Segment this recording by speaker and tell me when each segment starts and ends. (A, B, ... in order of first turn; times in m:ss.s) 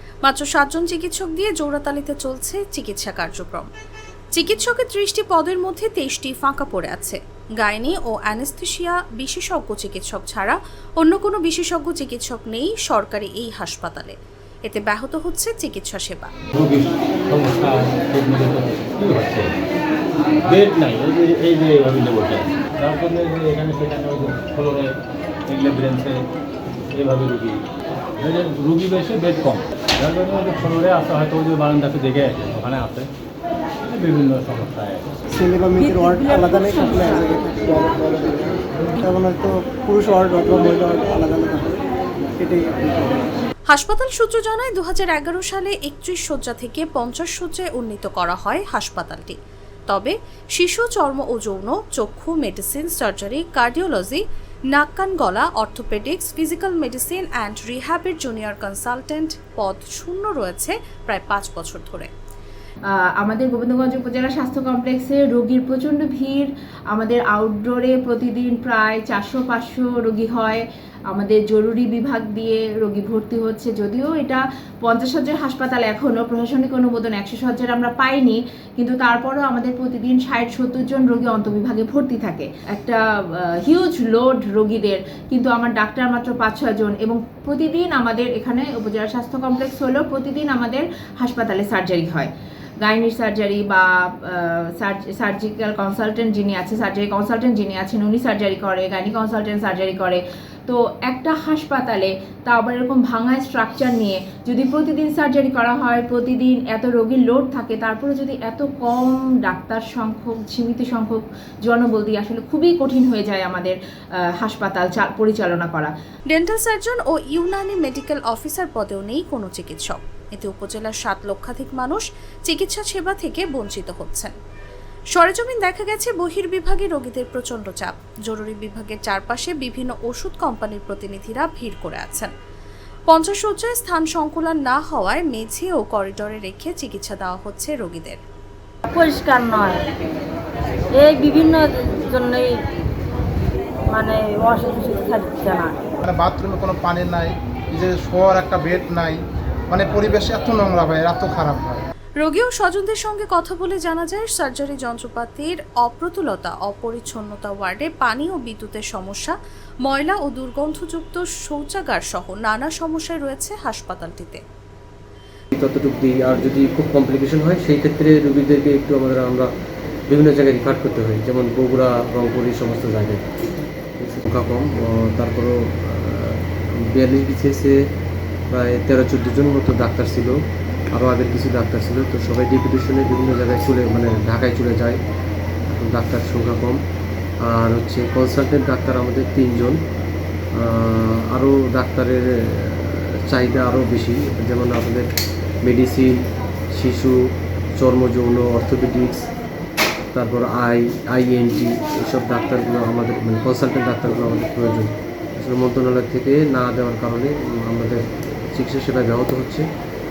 0:00.2-0:03.7 A
0:04.3-0:16.3 A
0:16.5-0:19.5 B
0:20.5-0:25.0 B
0:25.5-0:26.2 B
0:26.9-0:27.6 B
0:28.2-0:33.1 B
0:33.9-0:35.1 B
0:35.3-0:41.7 C
0:42.4-0:43.2 C
0:43.7-0:49.4 A
0:49.9-1:02.1 A
1:02.9-1:53.8 D
1:54.4-1:55.9 D
1:56.3-2:04.3 A
2:05.1-2:12.3 A
2:13.1-2:18.2 A
2:18.9-2:19.8 E
2:20.9-2:22.6 E
2:23.9-2:25.8 E
2:26.0-2:31.8 F
2:32.2-2:44.4 A
2:45.5-2:49.5 G
2:50.1-2:53.2 G
2:54.0-2:57.8 G
2:58.5-3:00.4 G
3:00.9-3:05.0 G
3:05.7-3:06.8 G
3:07.4-3:09.8 G
3:10.6-3:15.1 G
3:15.6-3:16.1 G
3:16.7-3:17.2 G
3:17.8-3:19.3 G
3:20.1-3:28.0 G
3:28.5-3:29.6 G